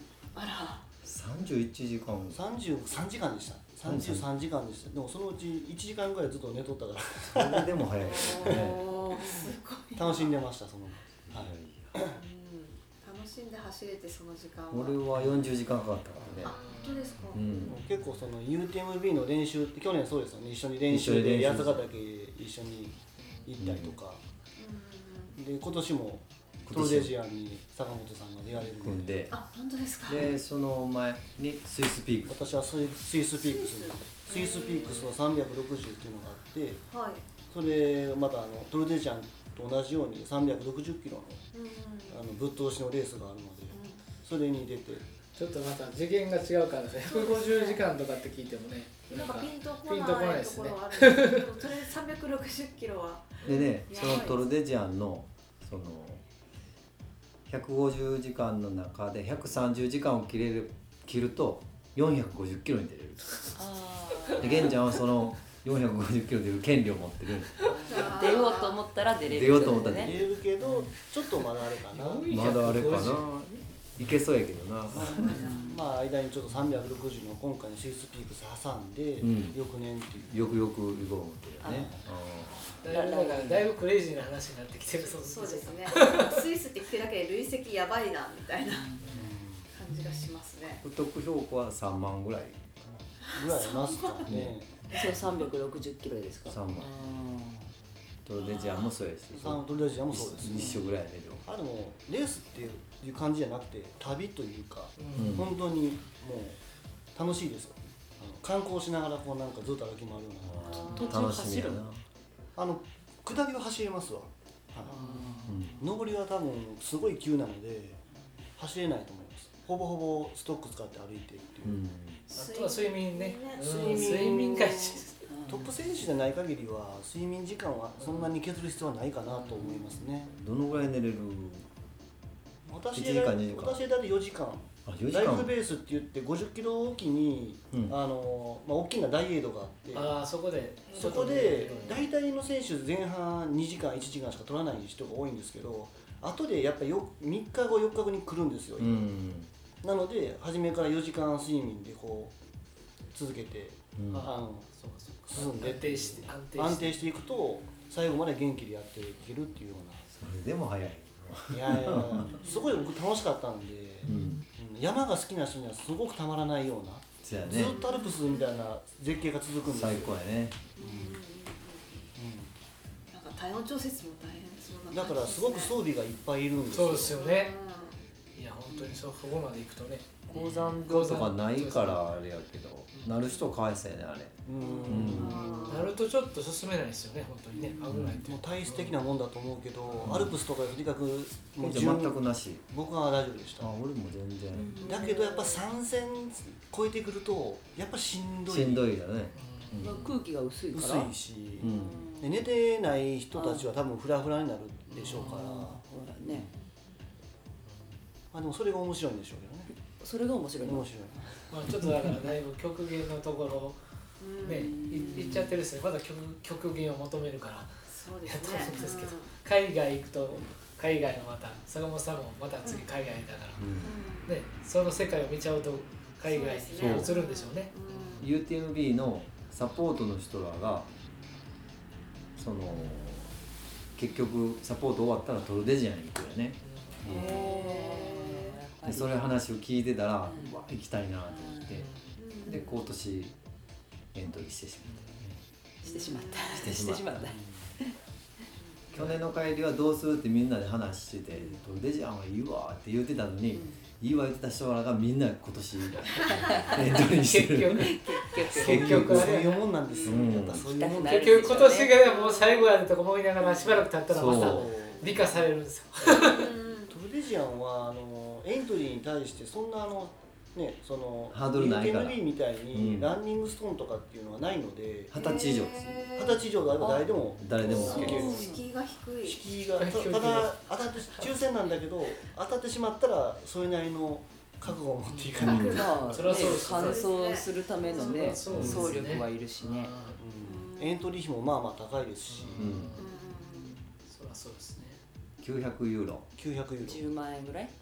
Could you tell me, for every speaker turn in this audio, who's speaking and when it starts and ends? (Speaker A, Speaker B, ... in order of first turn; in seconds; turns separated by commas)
Speaker A: 0.3-0.9, Speaker B: 1.0-2.4, Speaker C: 2.3-7.7, Speaker B: 3.8-4.3, Speaker B: 7.3-8.9, Speaker A: 8.0-10.4, Speaker C: 8.4-8.7, Speaker C: 10.0-12.2, Speaker B: 11.3-11.9, Speaker A: 12.0-15.2, Speaker B: 14.7-16.6, Speaker A: 16.4-17.8, Speaker D: 16.4-17.4, Speaker B: 17.3-17.8, Speaker C: 17.7-24.2, Speaker B: 20.9-21.9, Speaker B: 23.6-24.0, Speaker A: 24.6-25.4, Speaker C: 25.4-29.2, Speaker B: 26.7-27.1, Speaker B: 28.6-29.4, Speaker A: 29.3-30.3, Speaker B: 30.1-32.4, Speaker C: 32.3-36.8, Speaker A: 33.3-35.1, Speaker A: 36.9-37.2, Speaker C: 37.5-41.4, Speaker A: 41.5-42.2, Speaker C: 42.1-45.0, Speaker A: 43.7-44.0, Speaker D: 45.4-51.5, Speaker A: 47.0-47.8, Speaker A: 49.1-54.4, Speaker B: 53.5-56.2, Speaker B: 57.5-63.5, Speaker E: 63.6-64.8, Speaker B: 64.4-68.1, Speaker E: 67.7-70.9, Speaker A: 67.7-68.8, Speaker B: 69.3-70.2, Speaker C: 69.9-72.4, Speaker D: 71.9-73.6, Speaker B: 72.3-75.3, Speaker C: 74.9-80.4, Speaker E: 75.1-75.8, Speaker A: 75.1-75.7, Speaker B: 79.2-79.6, Speaker B: 80.3-82.7, Speaker E: 81.6-81.9, Speaker C: 81.7-82.0, Speaker E: 82.8-83.7, Speaker D: 82.8-86.4, Speaker A: 85.0-89.1, Speaker C: 89.1-89.7, Speaker A: 89.7-90.8, Speaker B: 90.8-92.7, Speaker C: 93.3-94.7, Speaker A: 93.3-94.3, Speaker B: 94.3-94.6, Speaker E: 94.9-97.7, Speaker B: 96.5-97.0, Speaker B: 98.3-101.5, Speaker A: 98.5-98.9, Speaker C: 99.4-100.8, Speaker C: 101.5-106.6, Speaker D: 105.0-105.4, Speaker B: 105.2-105.5, Speaker C: 107.2-111.0, Speaker B: 110.4-112.0, Speaker E: 110.7-111.8, Speaker A: 110.7-111.2, Speaker C: 112.6-115.0, Speaker E: 114.8-115.5, Speaker D: 114.9-115.6, Speaker B: 115.5-115.8, Speaker C: 115.8-118.0, Speaker C: 118.6-121.8, Speaker B: 121.6-122.3, Speaker D: 122.3-125.3, Speaker A: 122.3-124.6, Speaker C: 123.7-130.3, Speaker E: 125.3-125.7, Speaker B: 130.3-131.7, Speaker C: 132.7-140.2, Speaker B: 132.9-133.8, Speaker B: 134.9-135.5, Speaker D: 139.9-142.1, Speaker A: 140.9-141.9, Speaker C: 140.9-149.1, Speaker B: 148.8-149.5, Speaker C: 149.8-152.3, Speaker C: 153.1-154.7, Speaker B: 154.0-154.3, Speaker D: 154.2-157.0, Speaker C: 155.3-160.1, Speaker B: 160.2-162.4, Speaker C: 161.5-170.2, Speaker B: 164.0-164.4, Speaker B: 167.2-167.8, Speaker A: 167.5-168.6, Speaker B: 169.7-170.6, Speaker A: 170.8-172.1, Speaker C: 170.8-171.2, Speaker C: 172.2-172.5, Speaker A: 173.1-175.8, Speaker C: 174.9-177.2, Speaker D: 176.7-177.5, Speaker A: 177.1-178.0, Speaker D: 178.3-182.1, Speaker B: 180.3-185.4, Speaker D: 182.9-183.2, Speaker C: 184.4-185.7, Speaker E: 184.6-185.7, Speaker A: 184.8-185.9, Speaker D: 185.7-189.0, Speaker B: 187.9-188.2, Speaker C: 188.0-193.7, Speaker D: 189.9-190.2, Speaker B: 190.0-190.4, Speaker B: 191.6-192.6, Speaker B: 193.6-194.8, Speaker E: 194.6-195.3, Speaker C: 194.8-198.8, Speaker A: 194.8-195.3, Speaker B: 198.5-200.0, Speaker D: 199.3-200.1, Speaker E: 199.8-202.3, Speaker C: 200.7-205.8, Speaker B: 201.6-202.0, Speaker E: 203.3-203.7, Speaker D: 204.9-205.5, Speaker E: 205.1-206.5, Speaker C: 208.3-209.7, Speaker E: 210.0-211.3, Speaker C: 210.6-211.3, Speaker D: 211.5-213.8, Speaker A: 214.2-215.1, Speaker D: 214.4-217.7, Speaker E: 214.5-215.5, Speaker A: 217.9-219.3, Speaker D: 218.2-223.7, Speaker B: 223.6-223.9, Speaker A: 223.8-224.3, Speaker D: 224.2-228.3, Speaker A: 226.2-228.3, Speaker B: 226.8-227.1, Speaker B: 228.2-230.9, Speaker B: 232.4-233.3, Speaker B: 233.9-237.6, Speaker D: 236.6-237.0, Speaker A: 237.1-238.6, Speaker E: 237.1-239.2, Speaker B: 238.8-241.9, Speaker E: 240.2-240.6, Speaker E: 241.3-241.8, Speaker D: 241.7-242.1, Speaker A: 242.2-242.8, Speaker B: 242.4-243.3, Speaker B: 244.1-245.4, Speaker D: 244.9-245.2, Speaker E: 245.8-247.4, Speaker A: 245.9-246.7, Speaker B: 246.5-247.4, Speaker B: 248.9-257.9, Speaker E: 253.5-253.8, Speaker E: 256.5-256.8, Speaker D: 256.7-259.6, Speaker E: 257.8-259.1, Speaker B: 258.6-259.4, Speaker C: 258.6-261.7, Speaker E: 259.9-262.0, Speaker B: 260.1-260.7, Speaker D: 261.1-266.5, Speaker A: 262.0-262.7, Speaker B: 264.1-264.7, Speaker C: 264.1-265.4, Speaker A: 266.2-266.9, Speaker C: 266.9-275.5, Speaker B: 271.3-272.2, Speaker B: 272.7-273.2, Speaker B: 275.1-278.4, Speaker A: 275.2-276.3, Speaker C: 276.0-278.5, Speaker A: 277.7-279.4, Speaker E: 277.7-278.6, Speaker C: 279.2-286.3, Speaker D: 279.8-281.3, Speaker D: 285.1-287.1, Speaker B: 285.4-285.8, Speaker A: 285.6-288.4, Speaker E: 285.6-289.9, Speaker D: 287.8-290.2, Speaker B: 288.5-289.1, Speaker C: 288.5-289.0, Speaker C: 290.2-292.8, Speaker A: 290.4-291.1, Speaker D: 292.3-295.0, Speaker B: 292.6-293.0, Speaker A: 293.0-293.8, Speaker B: 295.4-296.3, Speaker C: 296.4-297.1, Speaker E: 296.8-297.7